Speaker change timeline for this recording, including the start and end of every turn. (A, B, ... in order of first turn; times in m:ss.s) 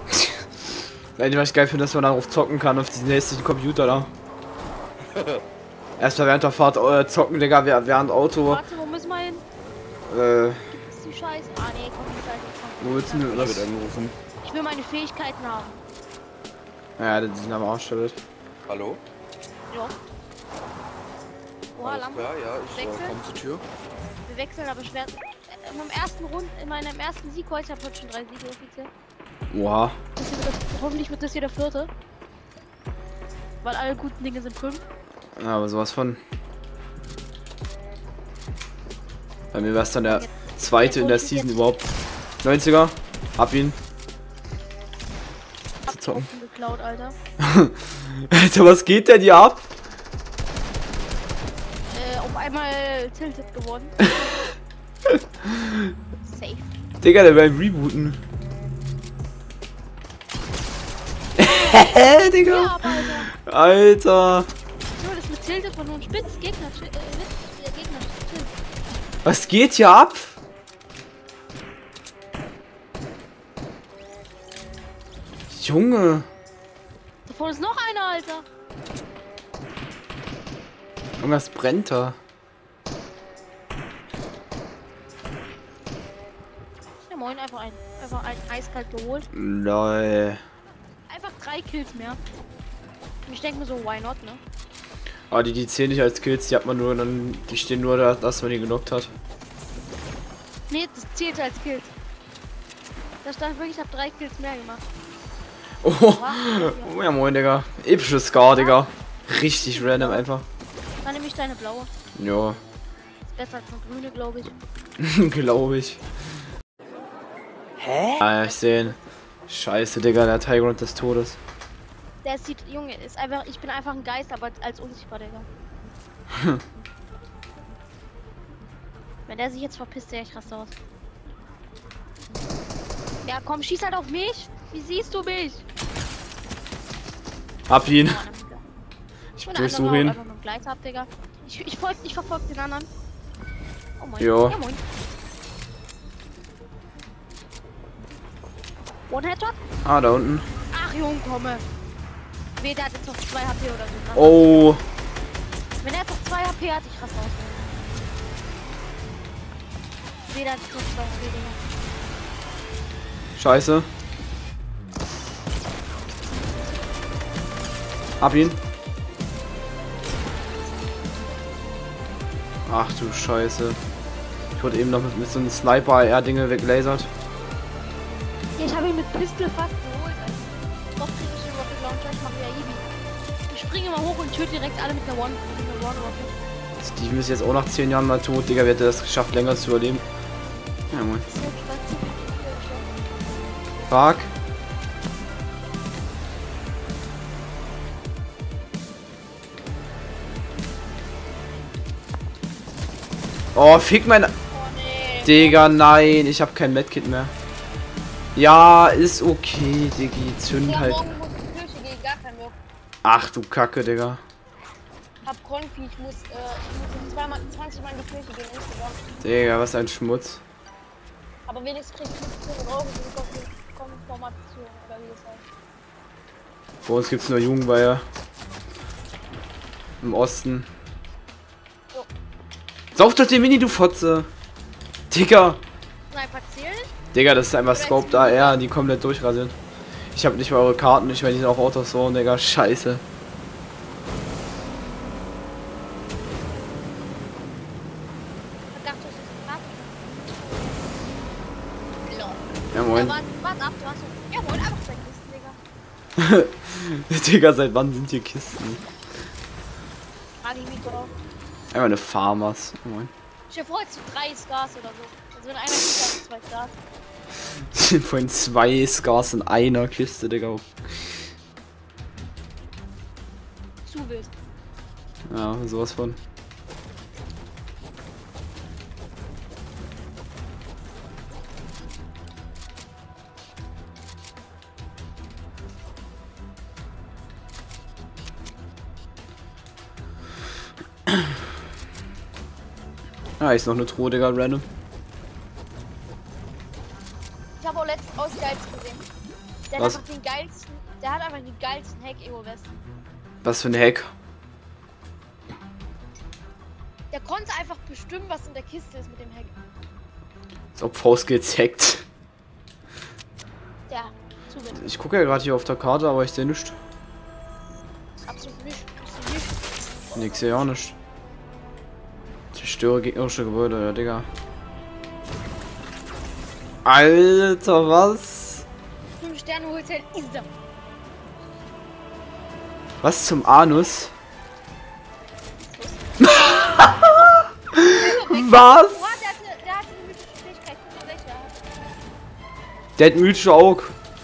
0:01.2-0:04.1 A
0:06.0-0:08.6 A
0:08.4-0:09.4 B
0:10.1-0:10.6 A
0:10.7-0:13.7 B
0:12.8-0:13.7 A
0:13.3-0:14.1 C
0:14.4-0:15.8 B
0:17.0-0:18.2 A
0:18.7-0:19.0 C
0:19.7-0:20.0 B
0:21.8-0:23.2 B
0:21.8-0:23.6 C
0:24.2-0:28.9 B
0:29.5-0:30.0 A
0:30.2-0:31.9 B
0:33.6-0:34.8 B
0:35.4-0:36.2 A
0:39.5-0:41.9 A
0:40.0-0:41.6 B
0:42.4-0:43.8 A
0:45.8-0:47.2 B
0:45.9-0:46.3 A
0:47.4-0:49.6 A
0:51.9-0:54.5 B
0:55.4-0:55.8 A
0:56.2-0:56.7 B
0:57.0-0:58.2 A
1:01.4-1:04.5 A
1:02.0-1:03.3 B
1:04.9-1:08.5 B
1:09.2-1:10.3 A
1:15.5-1:16.3 A
1:17.2-1:18.4 B
1:21.2-1:22.2 A
1:27.0-1:29.2 B
1:29.3-1:30.4 A
1:31.1-1:32.2 B
1:33.2-1:34.4 B
1:35.3-1:39.1 A
1:40.7-1:41.9 B
1:43.2-1:44.8 B
1:45.8-1:50.4 A
1:46.0-1:46.9 B
1:48.4-1:48.8 B
1:49.6-1:50.3 B
1:51.0-1:51.9 B
1:52.2-1:52.6 A
1:53.2-1:54.6 B
1:55.0-1:56.0 A
1:57.9-1:59.0 B
1:58.2-1:59.0 A
1:59.5-2:01.4 A
2:02.2-2:05.5 B
2:06.3-2:06.6 A
2:09.3-2:10.7 B
2:13.2-2:15.6 B
2:17.7-2:18.2 A
2:17.9-2:18.6 B
2:19.4-2:20.2 A
2:19.4-2:22.9 B
2:24.0-2:24.8 B
2:24.2-2:24.6 A
2:29.1-2:29.6 B
2:29.8-2:30.5 A
2:30.7-2:31.7 B
2:32.6-2:34.5 B
2:34.1-2:34.8 A
2:35.8-2:37.7 B
2:40.3-2:41.6 B
2:43.4-2:43.9 A
2:48.2-2:48.6 A
2:52.7-2:53.8 A
2:54.6-2:57.1 A
2:58.6-3:02.9 B
3:03.5-3:06.3 B
3:06.8-3:10.0 A
3:10.9-3:11.2 A
3:11.2-3:12.9 B
3:13.9-3:14.3 A
3:23.5-3:24.3 A
3:24.5-3:25.7 B
3:25.2-3:27.3 A
3:28.3-3:31.0 A
3:30.6-3:32.6 B
3:33.0-3:34.2 A
3:35.2-3:39.0 B
3:39.2-3:40.4 A
3:41.4-3:45.4 B
3:46.8-3:48.0 A
3:50.0-3:50.7 A
3:52.9-3:54.3 A
3:55.1-3:55.6 A
3:56.1-3:56.9 B
3:57.1-3:59.5 A
3:57.7-3:58.6 B
4:00.1-4:03.0 A
4:08.7-4:11.0 B
4:12.0-4:15.6 B
4:12.7-4:13.2 A
4:16.2-4:18.8 A
4:20.4-4:21.1 B
4:21.7-4:23.1 A
4:23.5-4:26.7 B
4:27.7-4:31.0 A
4:33.8-4:34.3 B
4:35.3-4:36.2 A
4:53.4-4:54.6 A
4:57.6-4:59.0 B
4:59.7-5:02.7 B
4:59.8-5:00.0 A
5:03.4-5:04.1 A
5:07.1-5:09.5 B
5:10.7-5:12.0 A
5:13.9-5:14.9 B
5:14.7-5:16.8 A
5:18.2-5:20.7 B
5:20.1-5:20.9 A
5:22.5-5:24.3 A
5:26.8-5:28.6 A
5:29.2-5:30.5 B
5:33.0-5:34.1 A
5:35.6-5:41.6 B
5:36.2-5:37.0 A
5:37.7-5:39.2 A
5:43.0-5:43.9 A